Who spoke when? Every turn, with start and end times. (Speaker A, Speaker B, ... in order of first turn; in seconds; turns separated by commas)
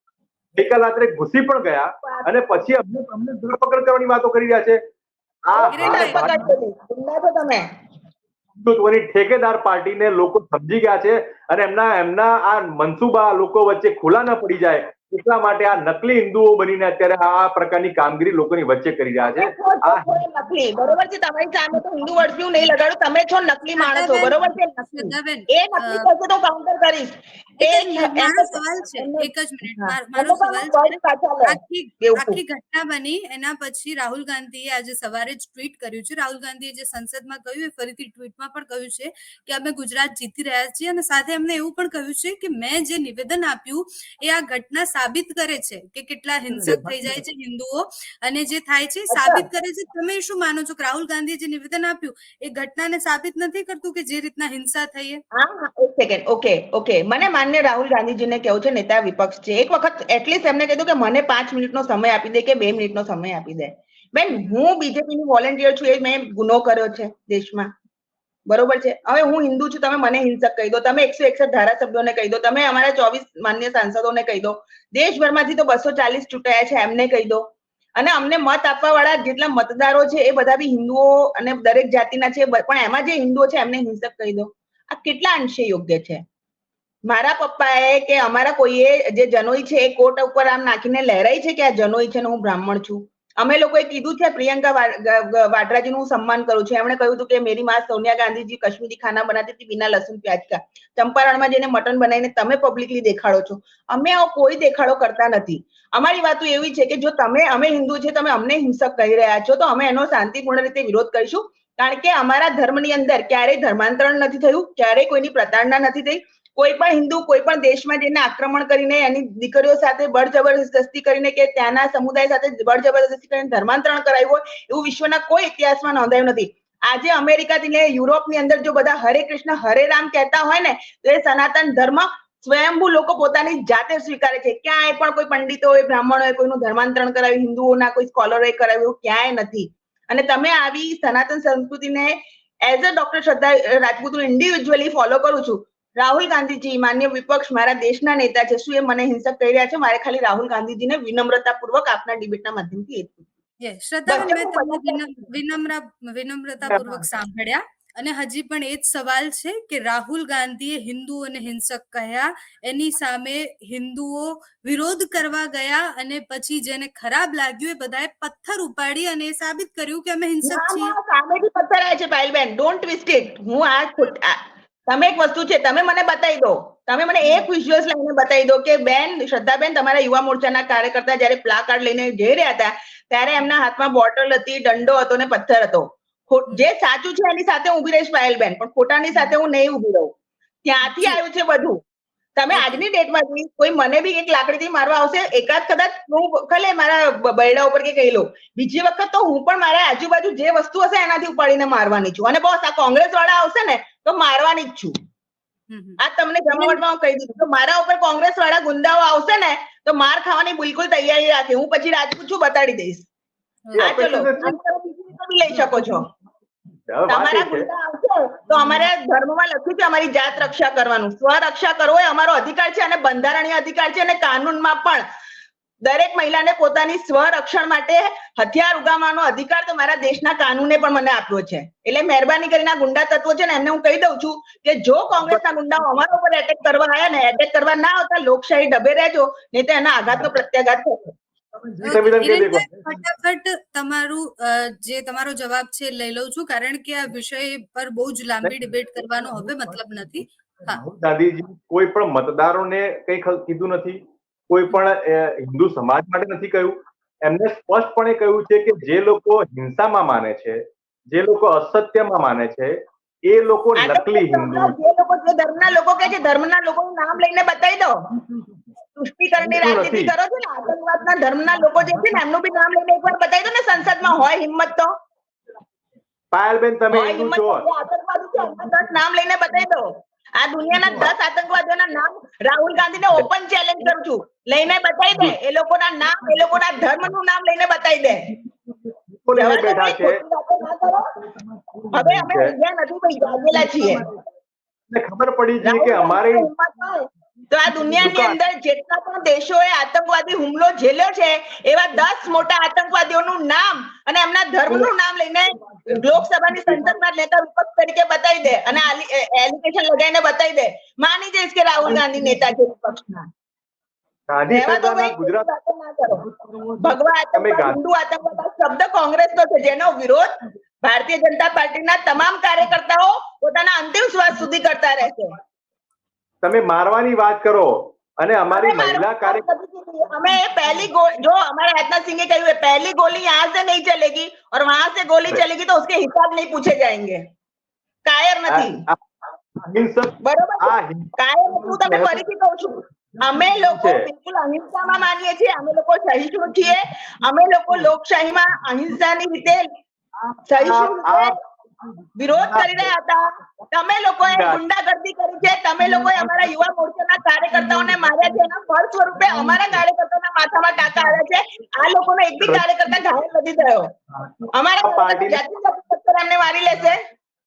Speaker A: 0.5-4.8, Speaker B: 2.0-2.4, Speaker A: 5.5-6.5, Speaker B: 5.5-7.7, Speaker C: 5.7-6.3, Speaker A: 8.6-20.1, Speaker B: 19.2-32.4, Speaker C: 23.8-26.1, Speaker C: 27.6-55.2, Speaker A: 46.5-47.2, Speaker B: 49.1-49.5, Speaker B: 55.3-67.7, Speaker C: 64.3-64.6, Speaker B: 68.5-77.4, Speaker B: 78.0-86.2, Speaker B: 87.0-153.2, Speaker C: 153.6-170.9, Speaker B: 154.1-155.3, Speaker A: 156.7-157.1, Speaker B: 170.4-190.1, Speaker B: 190.6-191.8, Speaker C: 190.8-191.2, Speaker B: 192.4-204.9, Speaker C: 192.5-192.8, Speaker C: 205.7-206.0, Speaker B: 206.0-213.1, Speaker C: 206.5-206.8, Speaker C: 213.7-214.5, Speaker B: 213.8-216.1, Speaker A: 213.8-214.5, Speaker A: 216.9-217.7, Speaker B: 217.1-225.0, Speaker B: 225.8-241.0, Speaker A: 235.2-236.1, Speaker A: 241.6-243.1, Speaker C: 241.8-250.8, Speaker A: 248.4-264.8, Speaker B: 263.8-267.9, Speaker A: 268.2-268.6, Speaker B: 269.0-274.9, Speaker A: 269.4-270.1, Speaker A: 271.7-272.2, Speaker A: 276.3-277.6, Speaker B: 276.9-279.9, Speaker B: 280.4-288.3, Speaker A: 280.7-281.1, Speaker A: 286.2-286.6, Speaker A: 288.1-290.2, Speaker B: 289.4-291.1, Speaker A: 291.3-292.5, Speaker B: 291.9-294.0, Speaker A: 293.5-294.2, Speaker A: 294.9-296.5, Speaker B: 295.6-313.3, Speaker A: 297.6-298.4, Speaker A: 305.9-306.9, Speaker A: 311.8-312.4, Speaker A: 314.3-315.5, Speaker B: 314.5-316.3, Speaker A: 316.1-317.8, Speaker B: 316.8-325.4, Speaker A: 326.4-329.4, Speaker B: 328.5-337.2, Speaker B: 338.1-338.8, Speaker A: 338.5-339.0, Speaker A: 339.5-342.2, Speaker B: 340.2-349.7, Speaker A: 343.1-344.1, Speaker A: 350.2-352.9, Speaker B: 350.5-351.4, Speaker B: 352.2-363.9, Speaker A: 354.2-354.6, Speaker A: 355.8-356.6, Speaker A: 357.5-358.5, Speaker A: 359.1-359.8, Speaker A: 360.8-361.2, Speaker A: 362.4-363.0, Speaker A: 364.1-365.4, Speaker B: 364.5-367.0